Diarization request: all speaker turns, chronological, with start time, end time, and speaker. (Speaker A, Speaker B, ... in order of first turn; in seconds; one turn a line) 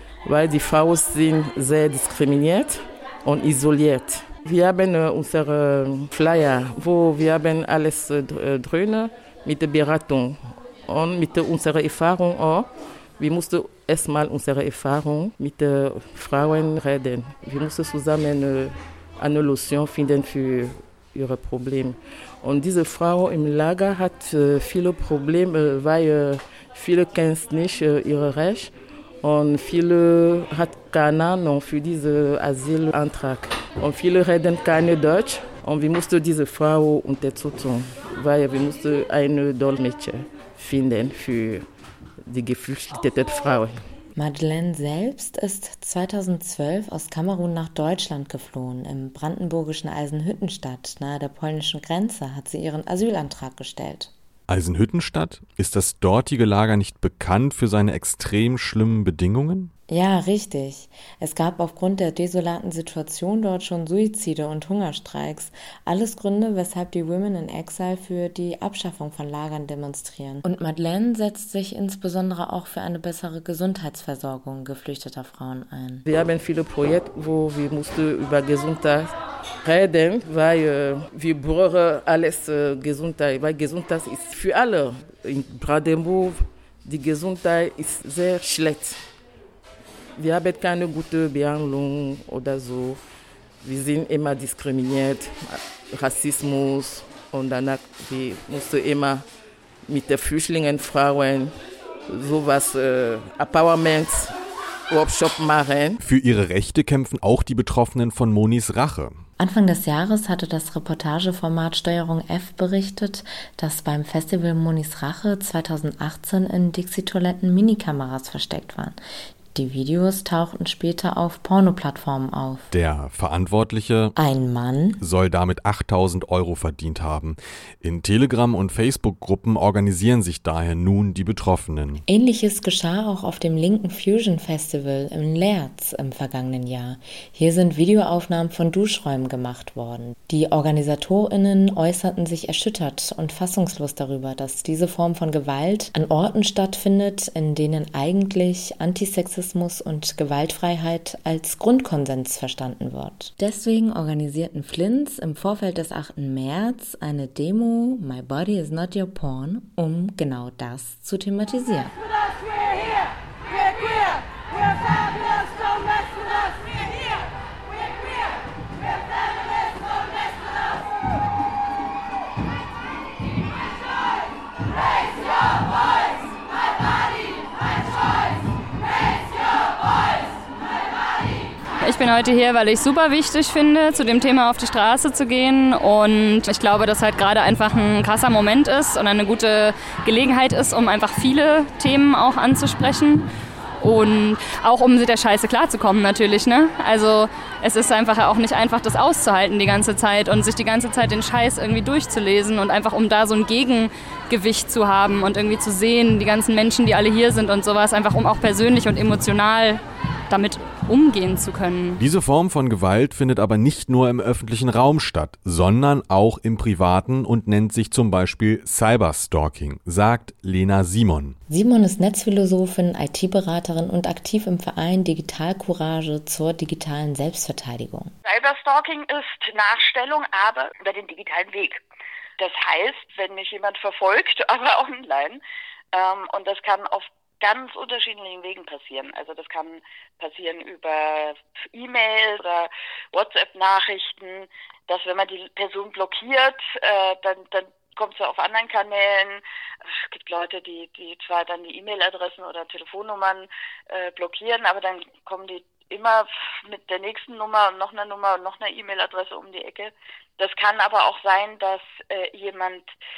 Speaker A: 0.2-41.7
Speaker A: 42.2-43.8
Speaker B: 44.2-54.1
Speaker C: 54.5-59.7
Speaker B: 59.9-76.1
Speaker A: 76.1-79.1
Speaker A: 79.6-89.0
Speaker A: 90.2-93.0
Speaker A: 93.6-99.2
Speaker A: 99.9-101.5
Speaker A: 102.1-104.3
Speaker A: 104.9-106.0
Speaker C: 106.1-109.1
Speaker B: 109.4-119.0
Speaker B: 119.5-122.7
Speaker C: 122.7-124.1
Speaker B: 124.2-125.0
Speaker C: 125.0-132.0
Speaker B: 132.1-161.9
Speaker D: 181.8-193.3
Speaker D: 193.8-212.0
Speaker C: 212.0-221.4
Speaker B: 221.5-228.1
Speaker E: 228.2-231.8
Speaker E: 232.4-235.4
Speaker E: 235.9-249.4
Speaker E: 250.0-262.9